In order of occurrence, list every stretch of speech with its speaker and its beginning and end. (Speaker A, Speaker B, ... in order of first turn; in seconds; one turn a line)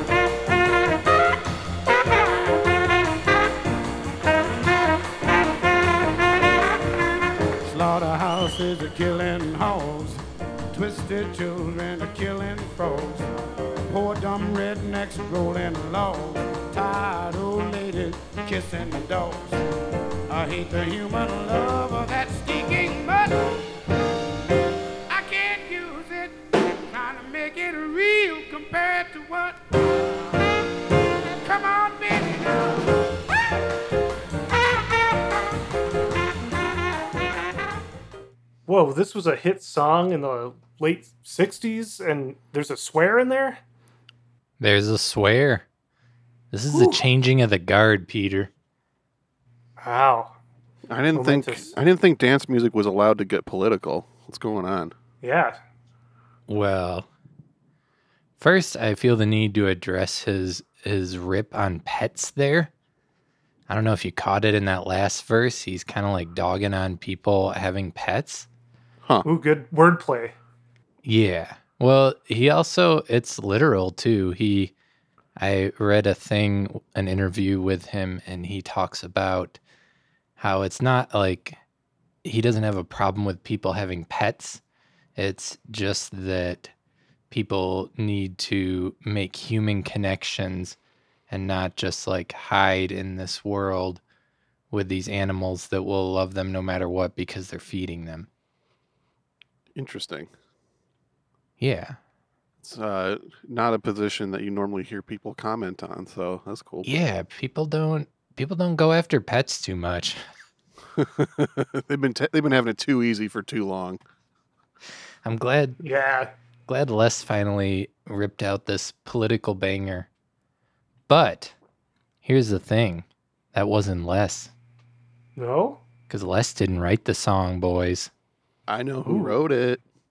Speaker A: 7.6-13.3
Speaker A: 13.9-19.6
Speaker A: 20.3-23.5
Speaker A: 25.1-30.5
Speaker A: 31.4-33.0
Speaker B: 38.7-43.6
Speaker C: 44.6-45.6
Speaker C: 46.5-48.5
Speaker B: 46.7-47.0
Speaker B: 49.8-50.4
Speaker D: 50.9-54.9
Speaker B: 51.1-51.7
Speaker B: 55.2-55.6
Speaker C: 56.5-57.1
Speaker C: 58.4-62.7
Speaker C: 63.7-68.5
Speaker B: 69.2-70.3
Speaker C: 71.0-74.7
Speaker C: 75.4-79.6
Speaker C: 80.4-81.6
Speaker C: 82.2-84.6
Speaker C: 85.2-86.7
Speaker C: 87.3-90.8
Speaker C: 91.3-94.0
Speaker C: 94.7-98.3
Speaker D: 99.8-100.3
Speaker C: 101.6-102.0
Speaker D: 102.6-106.9
Speaker C: 106.8-110.2
Speaker D: 111.0-114.0
Speaker C: 115.2-115.8
Speaker B: 115.8-116.3
Speaker C: 116.7-120.1
Speaker C: 121.1-121.5
Speaker C: 122.2-124.5
Speaker B: 125.4-125.8
Speaker C: 126.1-128.1
Speaker D: 128.7-129.8
Speaker B: 129.1-129.4